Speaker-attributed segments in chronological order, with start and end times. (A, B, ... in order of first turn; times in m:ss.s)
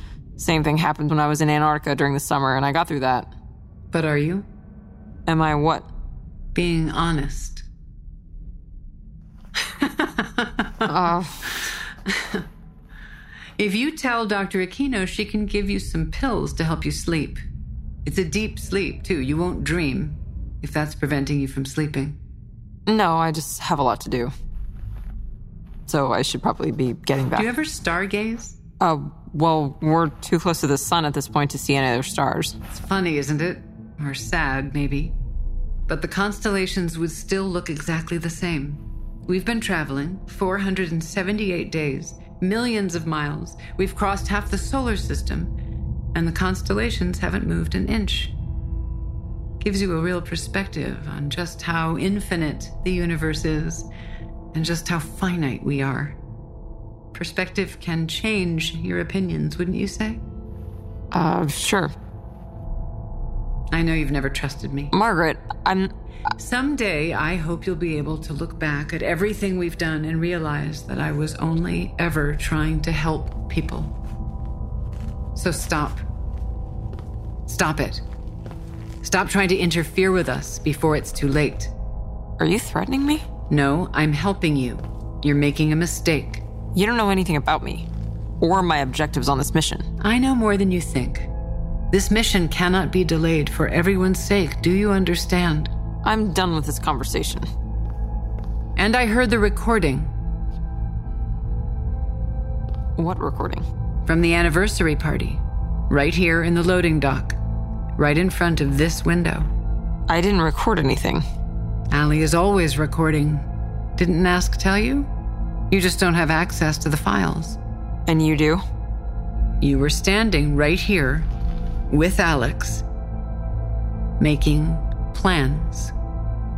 0:00.4-0:03.3 A
0:03.9-0:04.5 B
0:05.3-0:05.9 A
0:06.5-0:07.6 B
0:09.6-0:10.9 B
0:10.8-0:11.6 A
0:12.1-0:12.4 B
0:13.6-0:17.4 B
0:18.0-0:22.2 B
0:22.9-0:24.3 A
0:25.9-0:27.5 A
0:27.3-0:28.6 B
0:28.8-0:32.6 A
0:32.7-0:35.2 B
0:35.9-0:45.5 B
0:46.1-0:48.4 B
0:49.6-0:53.9 B
0:54.5-0:56.2 B
0:57.1-1:00.2 B
1:01.1-1:01.9 A
1:03.7-1:04.9 B
1:04.9-1:05.9 A
1:06.4-1:13.9 B
1:15.4-1:16.0 B
1:17.5-1:18.0 B
1:19.0-1:21.7 B
1:22.4-1:23.2 A
1:23.5-1:26.4 B
1:26.7-1:27.9 A
1:28.4-1:29.8 A
1:30.0-1:31.3 B
1:31.9-1:35.7 B
1:36.0-1:37.5 A
1:38.8-1:40.1 B
1:43.0-1:43.6 A
1:44.1-1:47.4 B
1:48.0-1:49.5 B
1:50.1-1:51.2 A
1:51.9-1:55.1 B
1:55.7-1:57.6 B
1:58.1-1:58.6 A
1:59.6-2:01.3 B
2:01.9-2:02.8 B
2:04.2-2:05.9 B